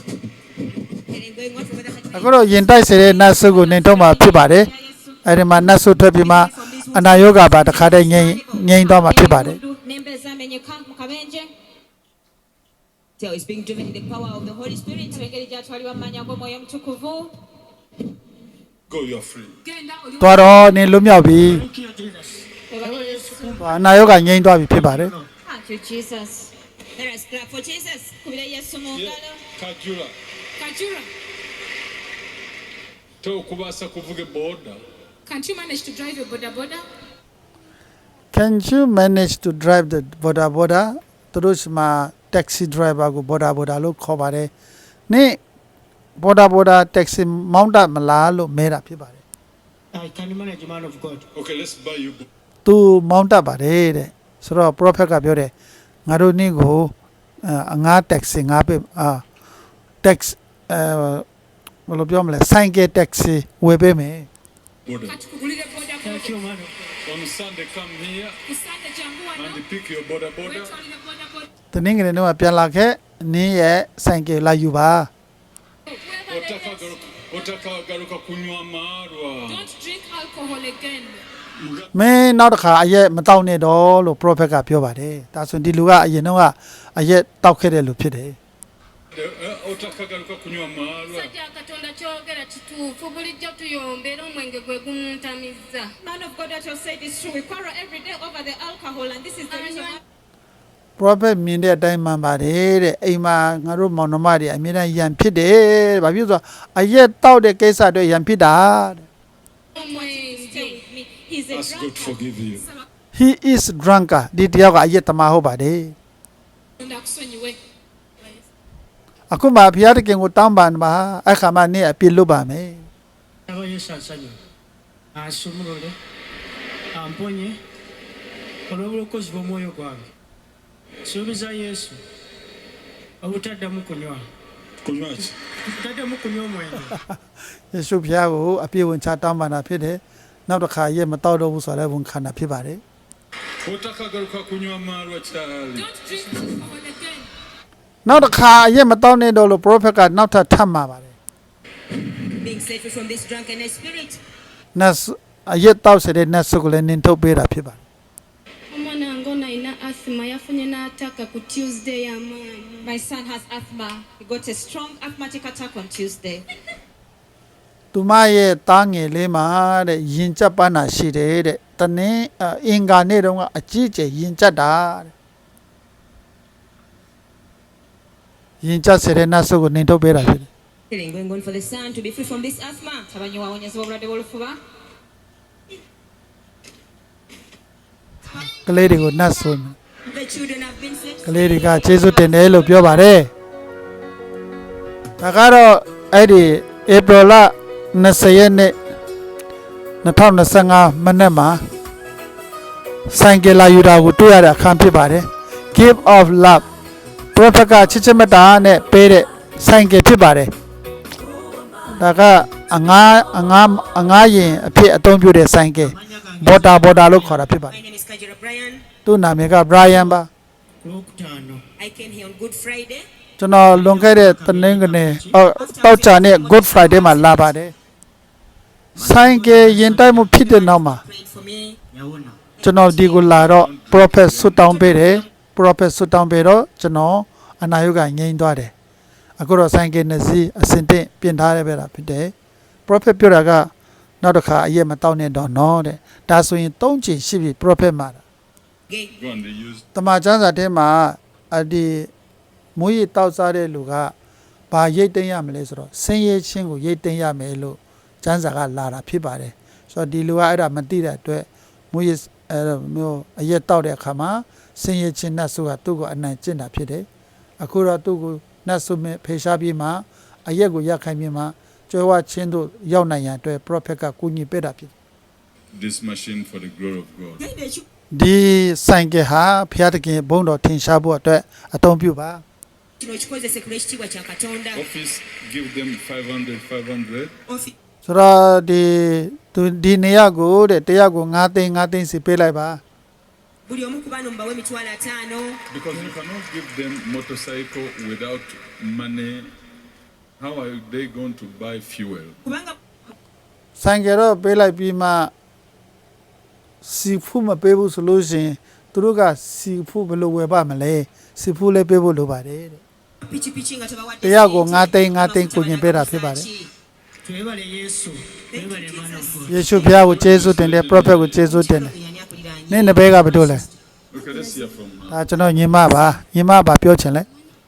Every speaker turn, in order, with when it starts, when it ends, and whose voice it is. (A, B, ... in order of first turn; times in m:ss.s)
0:01.0-0:05.2 A
0:02.1-0:04.7 B
0:05.2-0:09.6 B
0:06.1-0:08.6 A
0:08.8-0:11.5 C
0:13.2-0:15.2 A
0:15.1-0:17.3 C
0:18.9-0:19.6 D
0:19.6-0:20.7 E
0:20.2-0:21.6 B
0:21.3-0:24.1 F
0:22.7-0:23.6 C
0:23.6-0:25.1 B
0:24.7-0:25.3 F
0:25.4-0:26.5 C
0:27.0-0:28.2 A
0:28.2-0:29.4 C
0:28.9-0:30.1 D
0:30.6-0:31.1 E
0:33.2-0:34.8 D
0:35.2-0:36.8 E
0:38.3-0:44.5 B
0:45.1-0:45.4 B
0:46.2-0:49.2 B
0:49.9-0:51.2 F
0:51.4-0:52.3 D
0:52.6-0:55.5 B
0:56.1-0:59.2 B
1:00.0-1:01.2 B
1:01.9-1:04.3 B
1:04.8-1:05.2 D
1:05.0-1:06.4 E
1:06.0-1:06.9 F
1:07.0-1:08.4 D
1:08.4-1:09.6 E
1:09.4-1:10.7 D
1:10.4-1:11.5 E
1:11.7-1:15.1 B
1:15.9-1:16.9 E
1:16.3-1:19.6 D
1:19.5-1:21.2 E
1:21.6-1:21.9 D
1:21.9-1:28.4 B
1:29.1-1:31.3 D
1:31.1-1:35.9 G
1:36.0-1:40.0 C
1:41.0-1:49.1 B
1:49.7-1:52.2 C
1:49.8-1:50.4 E
1:51.5-1:52.6 D
1:53.1-1:56.0 B
1:56.8-1:57.6 E
1:59.3-2:02.9 B
2:03.5-2:04.4 F
2:05.1-2:06.0 F
2:06.9-2:07.6 F
2:08.7-2:10.1 F
2:11.0-2:12.0 F
2:13.2-2:14.2 F
2:14.8-2:15.3 D
2:15.6-2:17.0 F
2:17.7-2:22.8 B
2:23.6-2:25.9 D
2:25.7-2:27.3 E
2:28.0-2:31.2 B
2:32.4-2:34.2 A
2:34.8-2:37.8 B
2:38.7-2:42.7 G
2:42.8-2:46.5 C
2:47.9-2:55.1 B
2:58.6-3:00.5 B
3:00.9-3:03.1 A
3:03.1-3:04.6 C
3:08.6-3:09.8 B
3:10.0-3:12.8 A
3:11.2-3:13.3 B
3:15.2-3:18.8 B
3:20.0-3:21.6 B
3:23.1-3:26.6 B
3:27.3-3:30.5 B
3:31.9-3:37.8 B
3:35.8-3:37.4 F
3:37.6-3:38.8 A
3:39.1-3:40.3 B
3:40.8-3:41.6 F
3:41.8-3:43.1 A
3:43.4-3:47.7 B
3:43.7-3:45.5 F
3:45.4-3:47.5 A
3:49.0-3:50.3 F
3:49.0-3:51.0 B
3:49.9-3:51.8 A
3:51.9-3:52.5 F
3:52.6-3:53.4 A
3:52.6-3:58.7 B
3:53.3-3:54.7 D
3:54.8-3:55.2 A
3:59.4-4:02.3 B
4:02.9-4:03.7 B
4:04.2-4:08.2 B
4:09.1-4:09.8 D
4:10.0-4:12.1 B
4:12.8-4:14.1 B
4:14.7-4:27.1 B
4:27.6-4:34.9 B
4:35.7-4:37.4 D
4:37.4-4:37.8 A
4:38.1-4:42.4 B
4:43.0-4:44.8 A
4:44.7-4:47.3 D
4:47.5-4:47.7 A
4:48.0-4:52.8 B
4:53.7-4:55.6 A
4:55.7-4:59.5 D
5:00.4-5:02.4 D
5:02.4-5:02.8 A
5:03.8-5:05.3 B
5:06.8-5:12.8 B
5:13.2-5:16.7 A
5:14.2-5:16.5 B
5:17.2-5:19.6 F
5:18.5-5:20.2 A
5:19.5-5:22.0 B
5:19.8-5:21.4 D
5:21.4-5:23.8 A
5:22.7-5:23.6 B
5:24.1-5:25.2 D
5:25.1-5:27.3 B